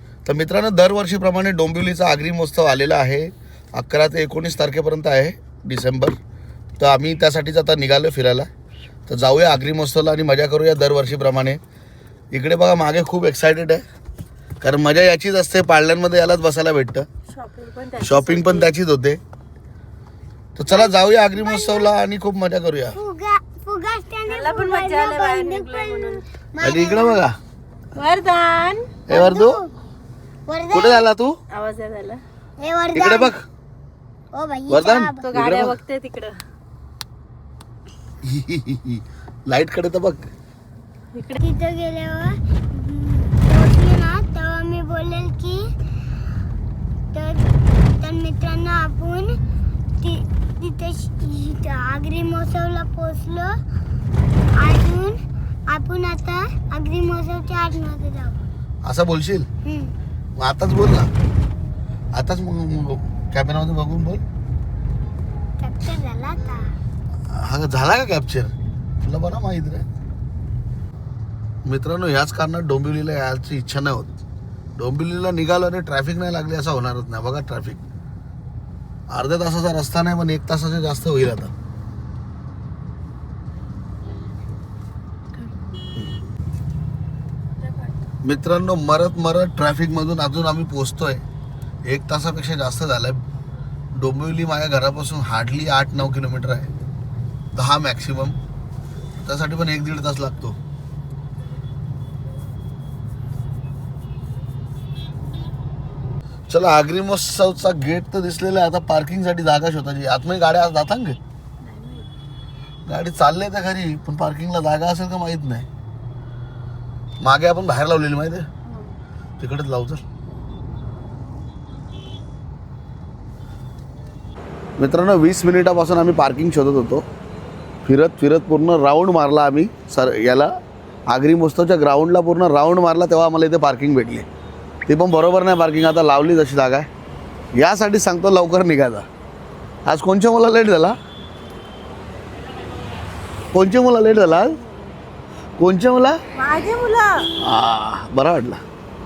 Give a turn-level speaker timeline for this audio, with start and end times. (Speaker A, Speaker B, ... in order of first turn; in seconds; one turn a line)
Speaker A: 0.2-6.2
Speaker A: 6.8-8.5
Speaker A: 9.1-11.6
Speaker A: 12.3-13.8
Speaker A: 14.6-17.1
Speaker B: 17.3-18.7
Speaker A: 18.0-19.2
Speaker A: 20.6-22.9
Speaker C: 20.7-21.9
Speaker C: 22.9-27.2
Speaker B: 24.3-26.2
Speaker A: 26.6-27.3
Speaker B: 27.9-28.9
Speaker A: 29.1-29.6
Speaker C: 29.1-29.7
Speaker C: 30.5-31.1
Speaker A: 30.7-31.3
Speaker B: 31.5-32.2
Speaker C: 32.6-33.3
Speaker A: 32.9-33.4
Speaker C: 34.3-35.2
Speaker A: 34.7-35.7
Speaker B: 35.2-36.4
Speaker A: 38.2-40.3
Speaker C: 41.4-45.6
Speaker C: 47.1-49.4
Speaker C: 50.0-53.6
Speaker C: 54.6-55.2
Speaker C: 55.7-58.4
Speaker A: 58.8-59.5
Speaker C: 59.6-59.9
Speaker A: 60.4-61.1
Speaker A: 62.1-64.2
Speaker C: 65.6-66.6
Speaker A: 67.3-69.8
Speaker A: 71.6-74.1
Speaker A: 74.8-77.8
Speaker A: 79.1-81.5
Speaker A: 88.2-91.2
Speaker A: 91.8-93.2
Speaker A: 93.9-96.7
Speaker A: 97.5-98.4
Speaker A: 99.2-100.6
Speaker A: 106.5-111.2
Speaker B: 111.6-112.0
Speaker A: 112.9-115.7
Speaker A: 117.2-118.5
Speaker A: 119.4-120.0
Speaker A: 124.8-127.0
Speaker A: 127.8-130.5
Speaker A: 131.1-134.2
Speaker A: 134.8-136.8
Speaker A: 137.6-139.0
Speaker A: 139.8-140.9
Speaker A: 143.5-144.6
Speaker A: 145.6-146.2
Speaker B: 146.3-147.2
Speaker A: 147.4-148.6